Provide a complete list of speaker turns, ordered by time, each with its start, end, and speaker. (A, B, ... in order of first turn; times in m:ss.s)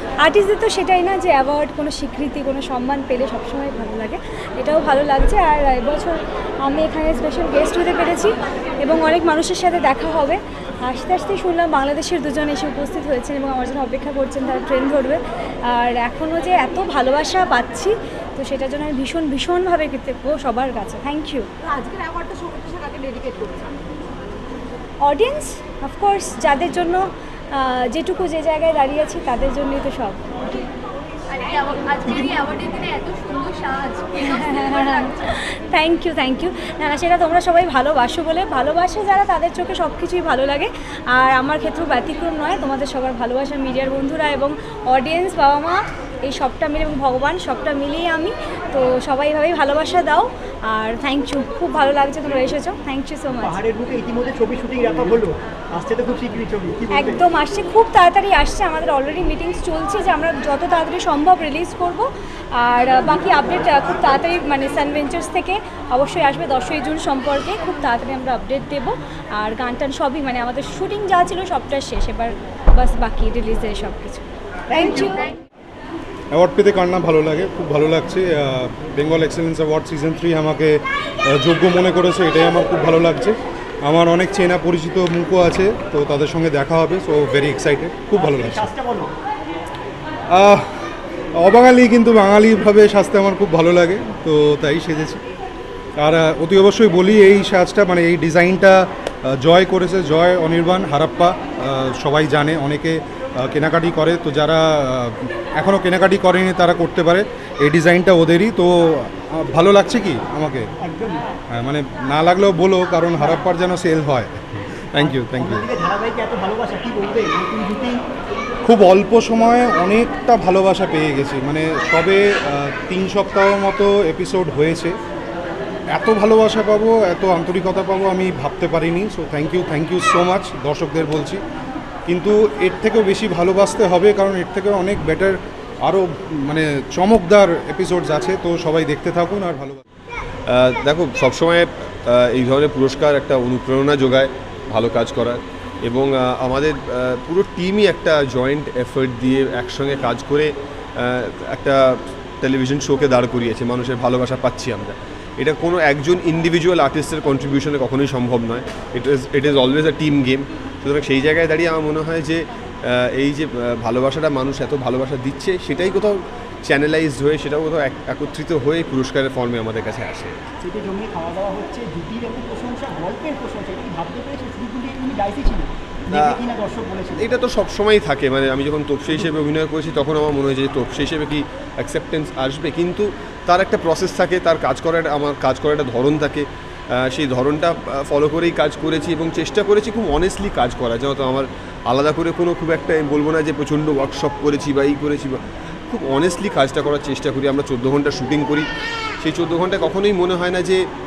0:00.2-0:21.5 A
0:21.8-0:23.6 B
0:25.0-0:30.2 A
0:31.3-0:35.3 B
0:34.2-0:53.6 A
0:53.4-0:57.2 C
0:56.9-1:15.4 A
1:16.3-1:20.8 D
1:21.3-1:28.7 D
1:28.2-1:29.1 C
1:30.3-1:30.6 D
1:31.4-1:35.2 D
1:36.0-1:38.8 D
1:39.4-1:48.7 D
1:49.3-1:50.7 D
1:50.8-1:51.3 C
1:51.5-1:55.7 D
1:55.0-1:58.0 C
1:58.6-2:04.9 D
2:06.0-2:11.4 D
2:12.1-2:19.8 D
2:20.5-2:30.5 E
2:31.0-2:31.8 E
2:32.4-2:50.4 E
2:50.6-2:57.2 C
2:56.1-2:56.5 E
2:57.2-3:06.4 E
3:07.1-3:15.4 E
3:15.9-3:18.6 E
3:19.2-3:20.8 E